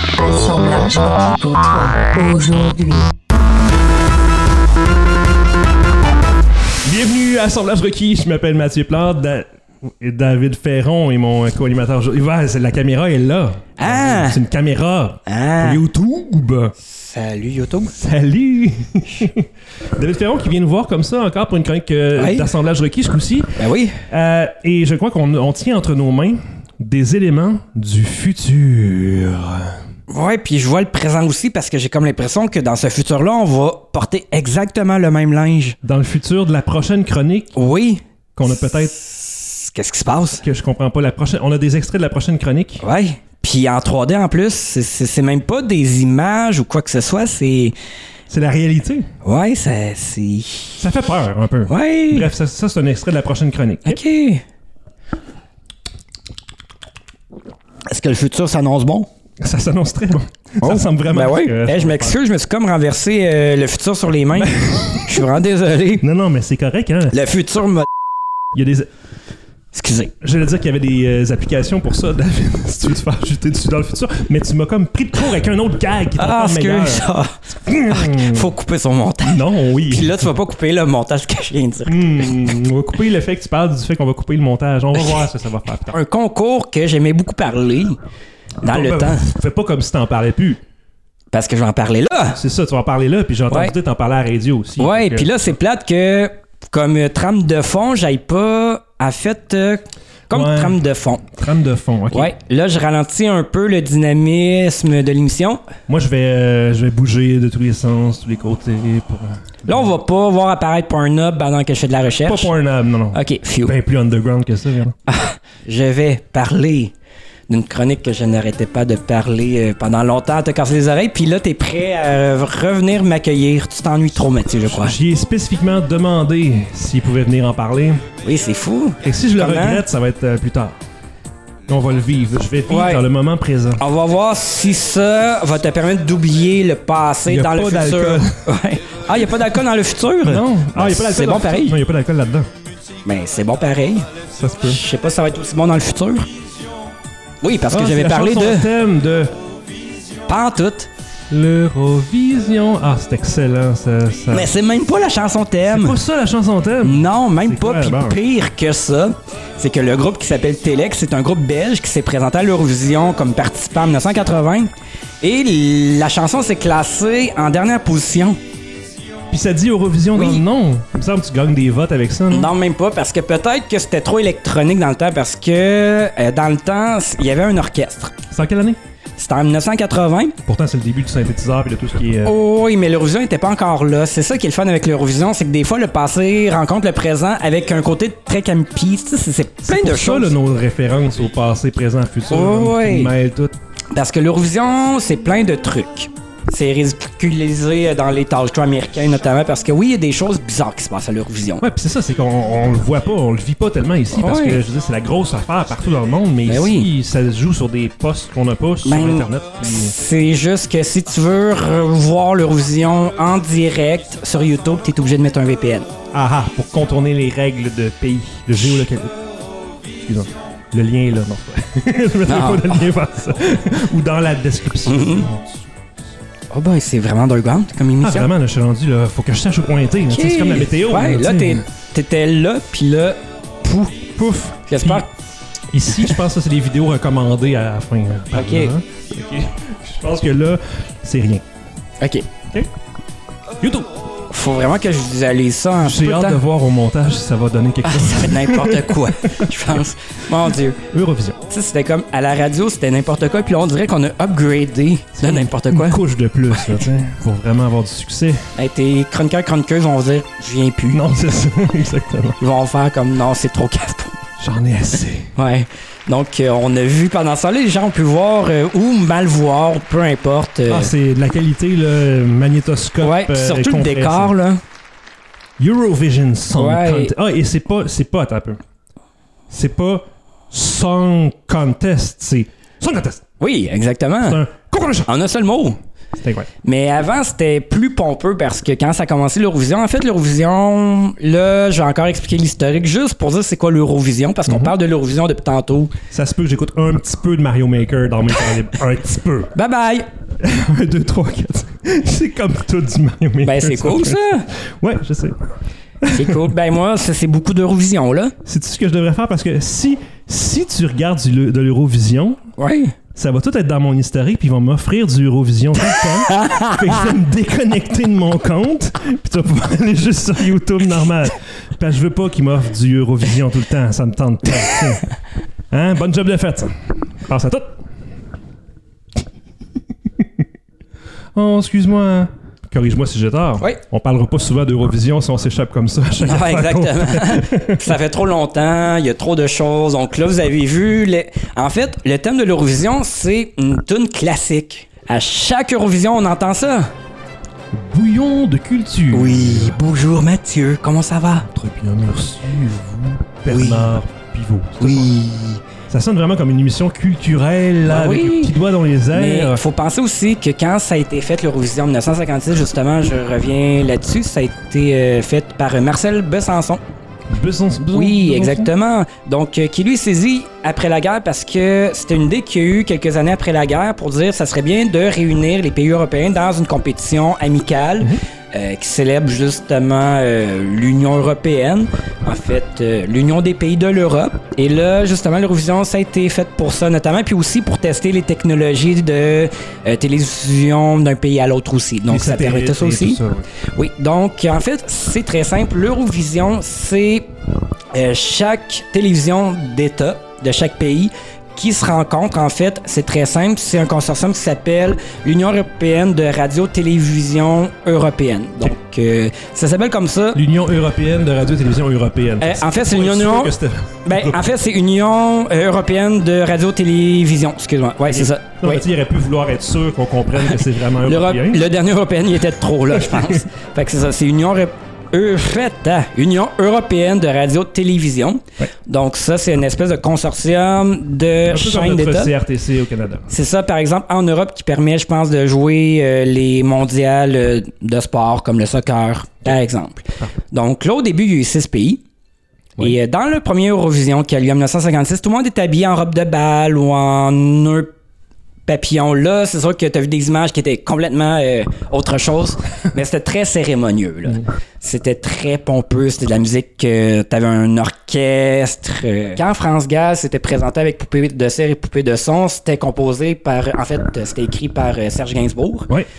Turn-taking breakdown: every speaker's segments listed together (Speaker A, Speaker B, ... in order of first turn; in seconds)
Speaker A: 0.1-3.1
Speaker B: 6.8-16.8, 17.9-29.8, 35.8-37.5, 38.4-39.0, 40.4-42.8, 48.3-49.1, 50.8-54.0, 59.4-62.2, 64.4-65.2, 66.0-67.2, 68.5-68.9, 70.2-77.1, 77.6-78.5, 79.3-80.3, 81.9-86.0, 88.6-90.6, 92.3-95.5, 100.3-102.3, 105.9-109.8, 112.3-115.0, 124.7-128.0, 129.0-130.8, 131.7-133.8, 137.3-138.5, 140.2-142.5, 144.4-144.8, 147.7-149.3, 151.3-154.5, 155.7-158.2, 169.3-172.5, 178.3-178.8, 180.5-182.4, 189.6-193.5, 201.6-209.9, 216.1-219.2, 220.0-225.6, 228.0-231.7, 235.7-241.4, 243.6-243.9, 245.8-249.5, 250.9-251.4, 255.2-258.5, 260.9-262.4, 264.4-265.3, 270.7-274.3, 275.6-278.6, 279.5-283.2, 284.2-285.1, 286.2-286.5, 294.5-294.7, 296.1-299.5, 300.4-305.4, 306.0-306.5, 308.4-312.4, 313.1-325.1, 325.7-326.7, 327.2-327.8, 331.4-337.9, 347.7-349.8, 351.4-355.1, 355.9-359.6, 367.3-368.7, 392.1-393.5, 410.3-414.4, 418.1-421.7, 423.1-423.4, 431.5-433.3
Speaker C: 13.8-14.4, 15.3-15.8, 16.8-17.9, 22.1-22.5, 23.6-24.0, 30.1-35.8, 37.5-38.0, 38.7-40.4, 42.8-47.8, 49.2-50.8, 51.7-52.3, 53.9-54.4, 57.9-59.1, 60.6-66.0, 67.1-67.9, 69.7-70.1, 76.2-77.4, 77.9-82.6, 85.0-85.2, 85.9-88.0, 88.6-89.3, 91.3-92.4, 94.8-101.2, 102.1-105.6, 109.7-112.5, 113.1-113.7, 115.1-116.9, 117.5-125.0, 128.2-129.8, 132.7-133.1, 133.8-141.8, 143.1-144.1, 144.7-146.3, 147.4-148.7, 150.3-150.9, 154.3-156.0, 156.8-164.7, 165.2-168.4, 170.1-170.4, 172.3-178.1, 179.2-180.4, 182.2-190.3, 192.3-193.1, 193.9-201.6, 204.1-204.6, 206.5-206.9, 208.8-215.9, 222.3-222.8, 224.9-225.3, 226.5-228.3, 230.1-235.1, 238.3-238.8, 242.0-242.3, 244.3-246.4, 247.8-250.8, 251.5-256.0, 258.6-261.0, 262.4-264.2, 265.4-270.9, 273.0-274.6, 276.6-277.1, 283.4-284.4, 285.1-285.8, 286.6-295.9, 299.6-300.1, 303.4-304.5, 306.1-308.4, 312.6-313.0, 316.3-317.0, 336.2-346.9, 349.1-351.5, 353.5-353.9, 354.8-355.6, 357.9-358.5, 359.1-366.8, 367.9-397.3, 397.9-410.4, 412.4-418.8, 420.4-432.3, 433.3-442.0, 442.8-447.9, 448.7-465.9